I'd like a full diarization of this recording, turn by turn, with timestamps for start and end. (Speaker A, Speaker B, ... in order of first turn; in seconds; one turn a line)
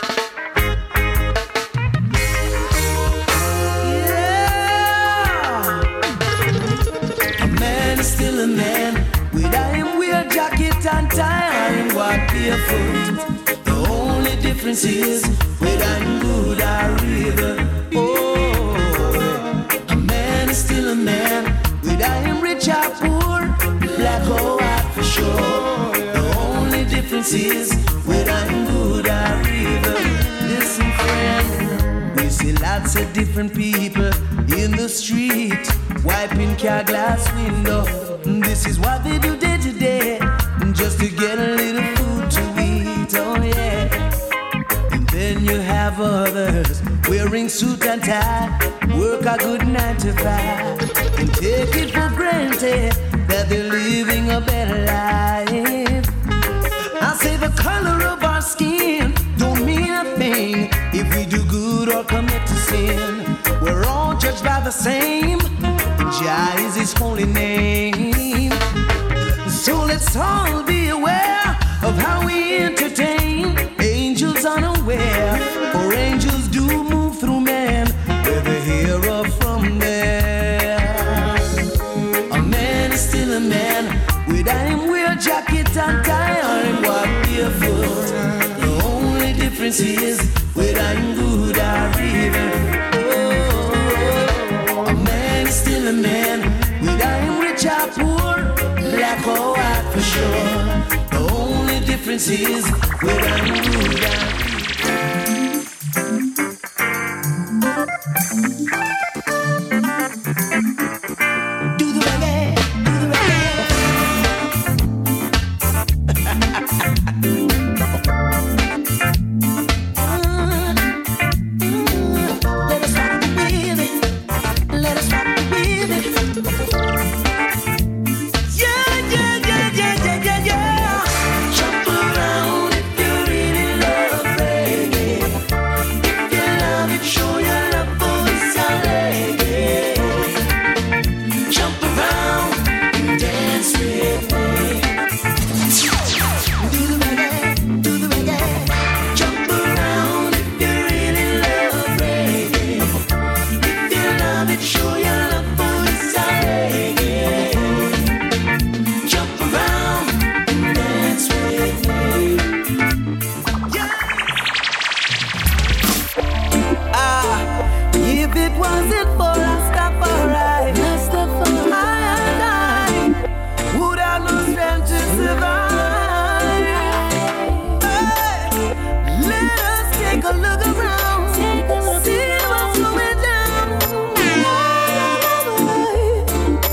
Speaker A: 3.8-5.9
Speaker A: 7.4-44.0
Speaker A: 44.9-56.1
Speaker A: 57.0-68.6
Speaker A: 69.4-81.6
Speaker A: 82.3-104.9
Speaker A: 111.8-113.7
Speaker A: 120.0-120.8
Speaker A: 121.6-124.1
Speaker A: 124.7-126.1
Speaker A: 128.5-135.4
Speaker A: 136.0-140.4
Speaker A: 141.5-145.0
Speaker A: 146.6-153.0
Speaker A: 153.6-158.1
Speaker A: 159.0-162.5
Speaker A: 163.7-164.4
Speaker A: 166.9-173.2
Speaker A: 173.7-186.3